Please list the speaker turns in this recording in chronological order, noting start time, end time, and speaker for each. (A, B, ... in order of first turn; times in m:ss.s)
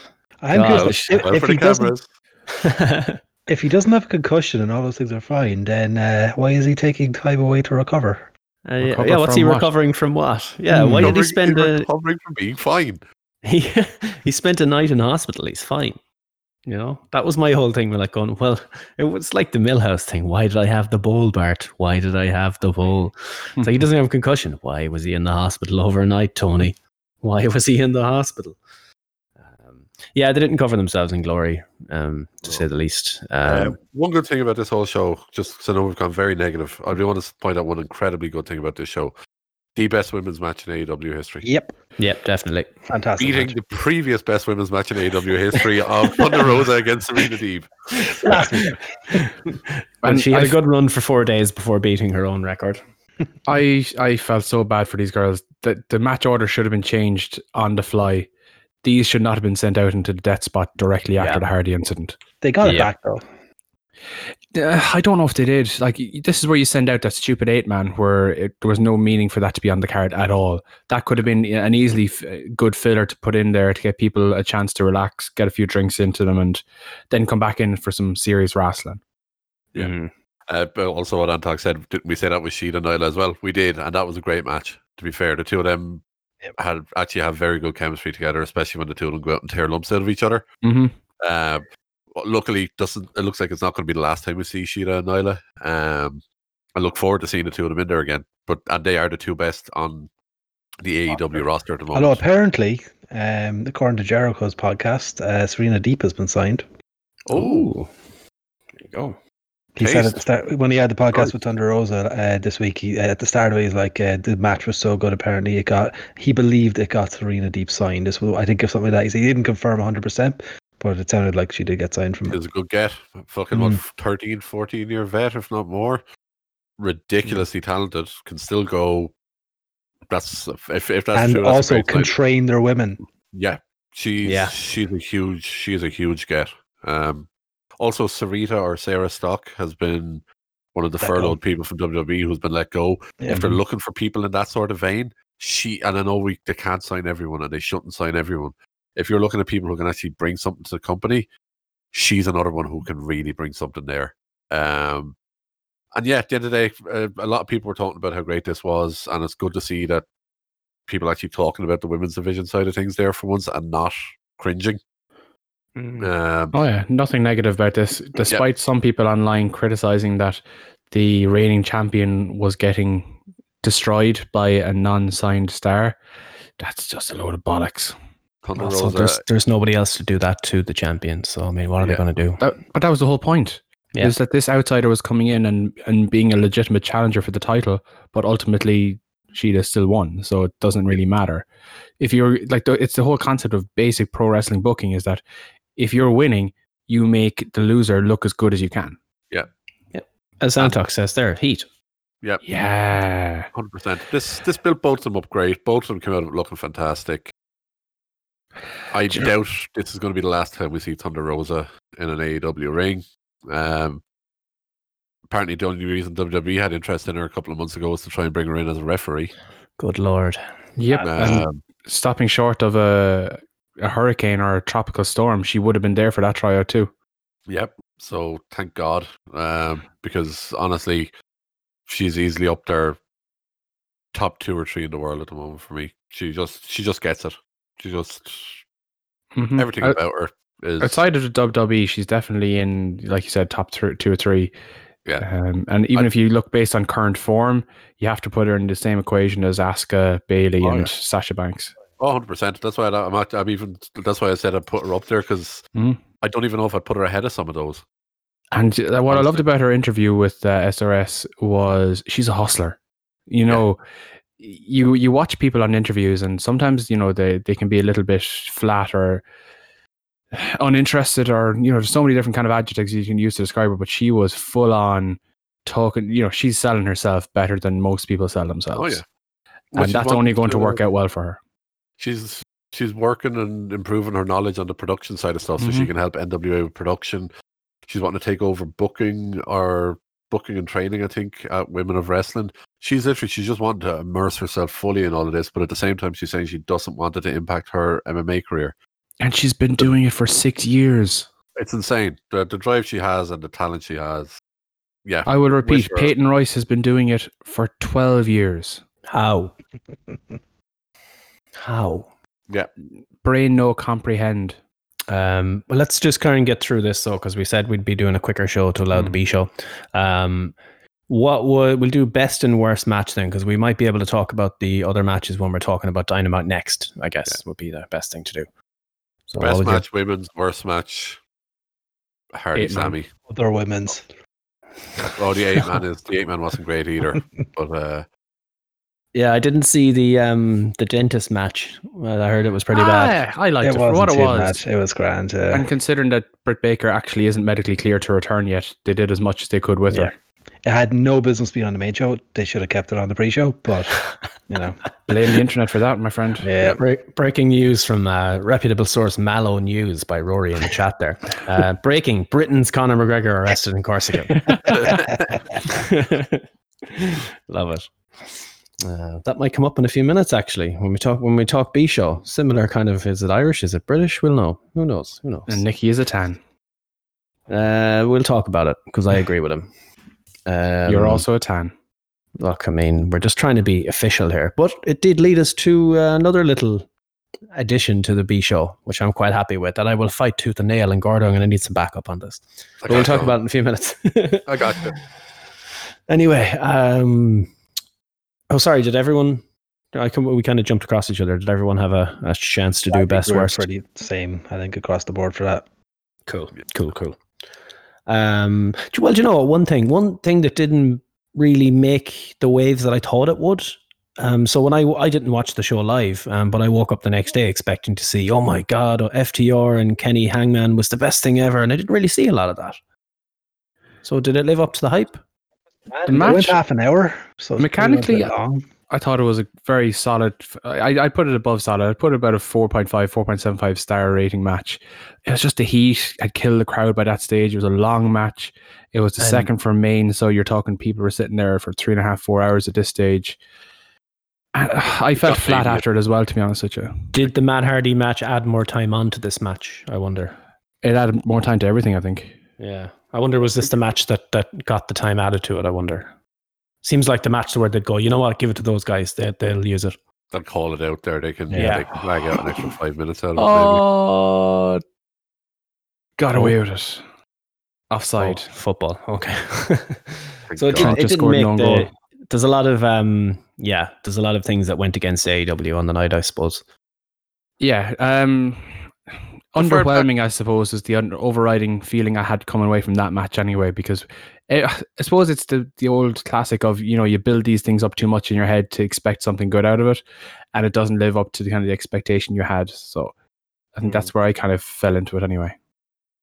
0:00.4-0:01.9 A
0:00.5-0:01.2 B
0:00.7-0:02.1 C
0:02.5-0:03.2 B
0:03.5-0:08.3 A
0:08.6-0:11.9 B
0:08.8-0:09.7 D
0:10.8-0:13.0 C
0:13.4-0:16.0 B
0:16.6-0:28.6 B
0:23.6-0:23.8 D
0:29.6-0:33.8 B
0:33.4-0:39.1 C
0:39.7-0:41.5 C
0:41.4-0:41.7 A
0:42.0-0:42.7 B
0:42.9-0:43.6 A
0:43.2-0:47.7 C
0:48.2-0:48.8 A
0:48.2-0:52.8 B
0:50.0-0:50.6 D
0:53.4-0:58.3 D
0:58.8-1:02.2 D
1:01.2-1:01.4 B
1:02.4-1:03.2 A
1:02.6-1:02.9 B
1:04.5-1:19.0 D
1:19.8-1:20.1 B
1:20.5-1:26.0 C
1:26.6-1:30.4 C
1:30.6-1:30.9 D
1:31.2-1:36.2 C
1:36.8-1:40.1 C
1:40.8-1:42.2 C
1:41.9-1:46.6 A
1:47.2-1:47.7 C
1:47.3-1:47.9 B
1:48.8-1:49.2 B
1:49.8-2:02.4 A
1:49.8-1:50.2 C
2:02.3-2:06.0 C
2:06.8-2:09.1 C
2:10.1-2:12.1 C
2:11.1-2:13.0 A
2:13.3-2:20.2 C
2:14.2-2:14.5 B
2:20.7-2:31.3 C
2:21.0-2:21.4 A
2:23.2-2:23.5 A
2:31.9-2:35.2 C
2:35.9-2:40.0 C
2:40.9-2:44.8 C
2:45.8-2:46.0 B
2:46.0-2:46.6 C
2:46.5-2:56.0 D
2:56.6-2:58.0 D
2:58.4-2:59.2 C
2:58.5-3:02.4 B
3:02.4-3:11.4 D
3:12.0-3:15.2 D
3:15.8-3:19.0 D
3:19.9-3:21.7 B
3:22.4-3:23.5 D
3:23.5-3:27.3 C
3:28.9-3:34.0 C
3:35.3-3:39.3 C
3:39.8-3:40.4 B
3:40.8-3:46.9 D
3:41.0-3:41.6 C
3:47.5-3:51.1 C
3:51.9-3:53.0 C
3:54.1-3:58.6 C
3:59.4-4:00.0 D
3:59.6-4:01.0 C
4:00.8-4:04.5 D
4:05.2-4:11.7 D
4:10.6-4:10.9 C
4:12.0-4:15.6 C
4:15.7-4:16.0 D
4:16.2-4:17.8 C
4:18.5-4:23.8 D
4:19.1-4:19.4 C
4:24.4-4:29.2 D
4:30.3-4:39.0 D
4:38.7-4:39.0 C
4:39.7-4:40.8 C
4:39.8-4:41.4 D
4:42.0-4:47.3 C
4:45.6-4:45.9 D
4:47.8-4:58.7 C
4:59.2-5:01.3 D
5:01.6-5:04.4 C
5:05.0-5:06.1 C
5:05.2-5:08.8 D
5:09.1-5:09.5 B
5:11.6-5:12.1 B
5:13.2-5:14.6 D
5:15.1-5:20.6 B
5:18.9-5:19.2 D
5:21.1-5:28.5 B
5:29.3-5:29.8 B
5:29.4-5:31.2 C
5:32.3-5:33.1 C
5:32.5-5:33.0 D
5:33.3-5:34.0 A
5:35.2-5:38.0 C
5:39.1-5:43.2 B
5:42.7-5:44.6 D
5:43.6-5:45.7 A
5:45.5-5:50.1 D
5:50.6-5:54.8 A
5:55.1-5:56.5 D
5:56.4-5:56.8 A
5:56.6-6:04.9 B
6:04.9-6:05.1 A
6:05.6-6:15.6 B
6:15.5-6:16.4 D
6:17.5-6:19.7 B
6:20.4-6:21.2 B
6:20.8-6:21.7 D
6:22.4-6:26.9 B
6:27.5-6:34.9 B
6:32.8-6:33.4 C
6:34.4-6:35.0 C
6:36.1-6:37.5 B
6:38.5-6:43.6 B
6:42.9-6:45.6 A
6:46.3-6:47.2 B
6:48.1-7:02.8 B
7:04.0-7:05.2 B
7:05.9-7:08.7 A
7:06.1-7:06.6 D
7:07.6-7:08.3 D
7:08.9-7:23.4 D
7:19.2-7:19.5 B
7:24.5-7:27.2 D
7:25.1-7:25.8 C
7:27.1-7:30.4 B
7:30.8-7:32.3 D
7:32.6-7:36.1 B
7:36.8-7:40.0 B
7:40.3-7:43.8 C
7:41.5-7:41.9 B
7:43.4-7:44.8 D
7:46.2-7:47.0 D
7:47.9-7:48.5 D
7:48.2-7:56.6 B
7:50.5-7:51.0 C
7:50.8-7:51.9 D
7:57.6-7:58.9 D
7:59.5-8:10.0 D
7:59.6-8:00.1 C
8:10.5-8:13.1 D
8:13.8-8:15.5 D